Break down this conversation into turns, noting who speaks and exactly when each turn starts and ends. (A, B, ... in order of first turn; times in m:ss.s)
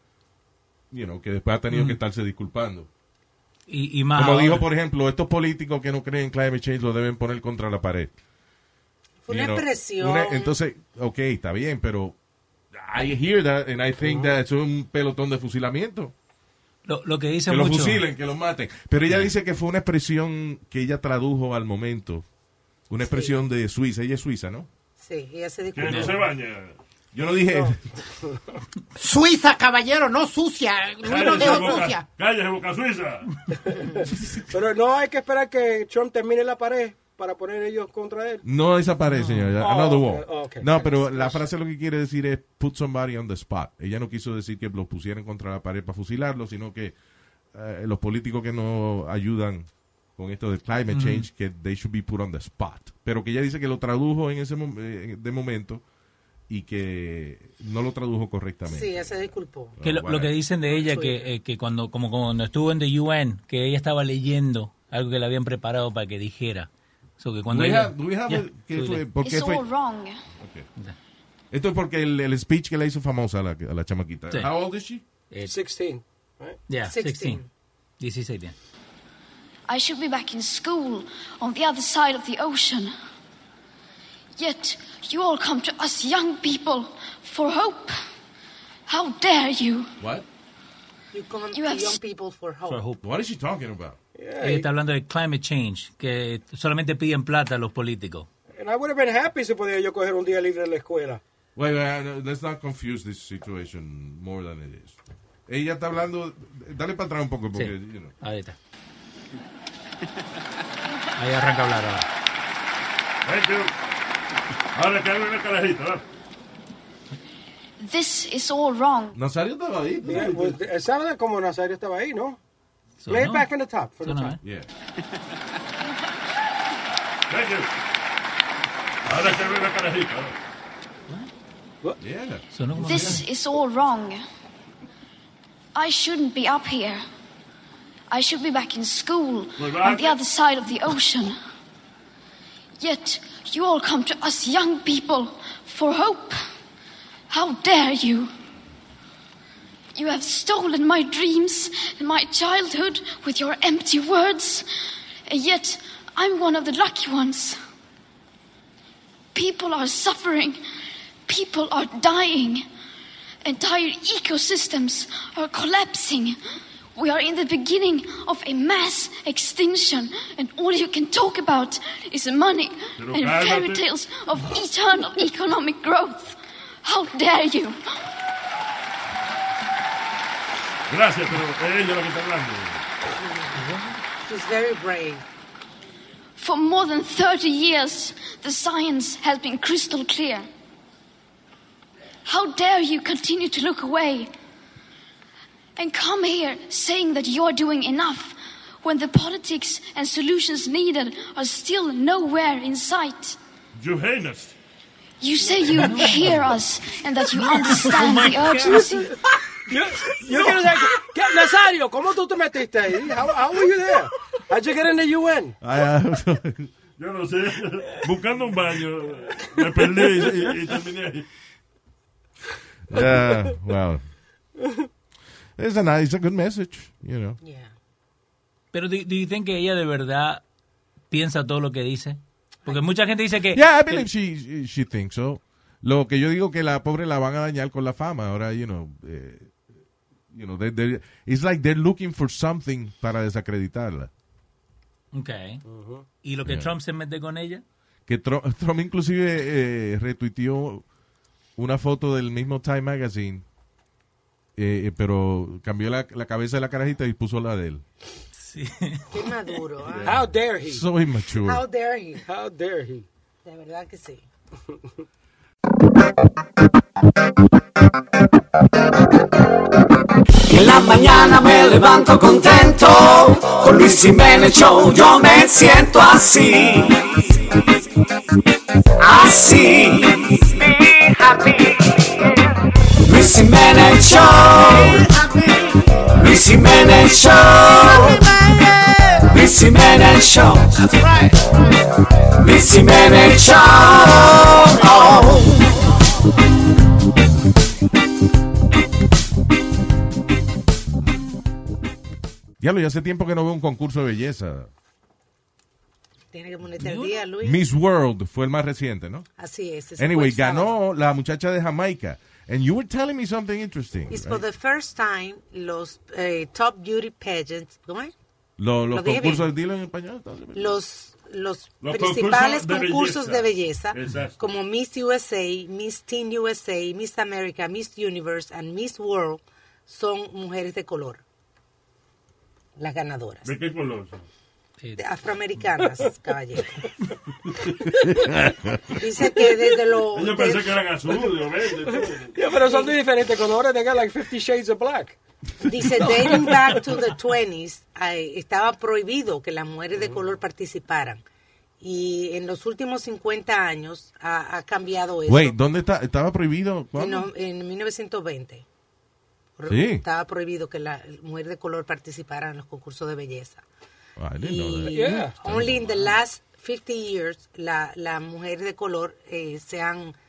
0:00.9-0:02.9 A
0:01.7-0:02.0 B
0:03.7-0:04.7 B
0:04.1-0:08.1 A
0:09.3-0:10.6 C
0:09.3-0:12.2 A
0:12.7-0:16.1 A
0:14.0-0:14.3 D
0:16.9-0:18.0 B
0:17.5-0:22.2 A
0:22.9-0:24.7 A
0:23.0-0:23.4 C
0:25.0-0:26.2 C
0:25.8-0:26.8 E
0:25.8-0:26.1 B
0:27.1-0:27.8 A
0:29.0-0:32.0 F
0:31.0-0:33.3 E
0:33.7-0:38.4 D
0:38.4-0:46.9 A
0:39.1-0:39.5 B
0:39.6-0:41.5 D
0:47.5-0:55.8 A
0:50.9-0:51.3 B
0:56.5-1:00.4 A
0:58.7-0:59.8 C
0:59.8-1:09.1 B
1:00.7-1:01.3 C
1:07.5-1:09.6 A
1:09.2-1:10.2 G
1:10.4-1:10.7 A
1:11.5-1:15.0 A
1:15.3-1:15.6 B
1:15.4-1:16.6 D
1:16.7-1:17.4 B
1:16.9-1:17.4 C
1:18.0-1:18.6 B
1:19.7-1:22.9 G
1:24.4-1:28.0 G
1:28.9-1:29.9 G
1:31.1-1:32.8 C
1:31.5-1:32.0 G
1:32.7-1:33.0 B
1:33.0-1:34.0 A
1:34.2-1:34.7 D
1:34.4-1:38.3 B
1:38.5-1:41.2 D
1:41.6-1:48.1 A
1:47.5-1:48.6 B
1:51.2-1:52.1 B
1:53.3-1:53.7 E
1:54.7-1:56.0 E
1:57.8-1:59.2 G
1:59.1-2:00.6 A
2:00.0-2:02.4 D
2:03.0-2:04.4 B
2:03.1-2:04.4 D
2:04.4-2:04.7 A
2:07.3-2:07.7 E
2:09.1-2:10.4 E
2:12.0-2:13.2 A
2:12.5-2:13.2 B
2:12.8-2:14.2 G
2:15.8-2:17.0 G
2:18.1-2:21.4 G
2:19.6-2:20.2 E
2:22.8-2:26.4 G
2:27.3-2:28.3 G
2:30.0-2:34.7 G
2:35.3-2:37.6 G
2:39.3-2:40.6 G
2:41.3-2:42.6 G
2:43.4-2:46.4 G
2:47.0-2:57.8 G
2:53.0-2:53.8 E
3:00.9-3:02.8 E
3:03.2-3:03.6 C
3:03.6-3:03.9 B
3:04.3-3:05.2 C
3:06.4-3:10.5 G
3:12.2-3:14.3 G
3:15.8-3:23.4 G
3:23.8-3:24.6 E
3:25.2-3:29.1 G
3:25.8-3:26.4 B
3:27.4-3:28.9 B
3:29.7-3:35.6 D
3:30.3-3:30.6 B
3:35.6-3:36.7 A
3:37.0-3:41.3 E
3:42.9-3:44.0 A
3:45.6-3:47.4 A
3:47.4-3:47.7 C
3:48.7-3:50.4 B
3:51.1-3:54.1 B
3:53.5-3:59.6 A
4:00.3-4:04.1 A
4:05.1-4:05.6 B
4:05.6-4:06.1 D
4:06.2-4:07.6 B
4:06.4-4:06.7 A
4:08.1-4:10.8 A
4:11.6-4:13.4 A
4:14.6-4:17.8 A
4:18.4-4:19.1 B
4:19.1-4:20.2 C
4:19.9-4:21.6 A
4:20.0-4:20.8 D
4:21.5-4:22.3 C
4:22.3-4:23.1 D
4:23.4-4:24.2 C
4:30.6-4:36.5 H
4:43.1-4:44.3 H
4:44.7-4:45.8 F
4:46.3-4:47.4 H
4:47.8-4:49.2 F
4:49.4-4:50.4 H
4:50.7-4:51.4 F
4:52.5-4:53.9 H
4:54.7-4:55.5 F
5:02.6-5:04.7 A
5:06.3-5:07.6 C
5:07.4-5:09.3 A
5:09.4-5:10.8 C
5:10.0-5:14.4 A
5:14.1-5:18.1 C
5:18.6-5:20.8 A
5:18.9-5:19.5 C
5:20.5-5:31.2 C
5:21.8-5:24.4 E
5:32.8-5:33.5 C
5:33.4-5:34.2 E
5:35.0-5:36.9 C
5:38.0-5:38.9 A
5:39.0-5:40.8 C
5:40.1-5:42.4 E
5:42.4-5:45.2 D
5:42.6-5:42.9 C
5:45.6-5:51.2 C
5:46.0-5:46.7 D
5:51.8-5:55.6 C
5:55.3-5:57.3 A
5:57.0-5:58.6 C
5:59.6-6:03.6 C
5:59.7-6:00.0 A
6:04.2-6:06.1 A
6:04.4-6:10.2 C
6:04.9-6:05.4 D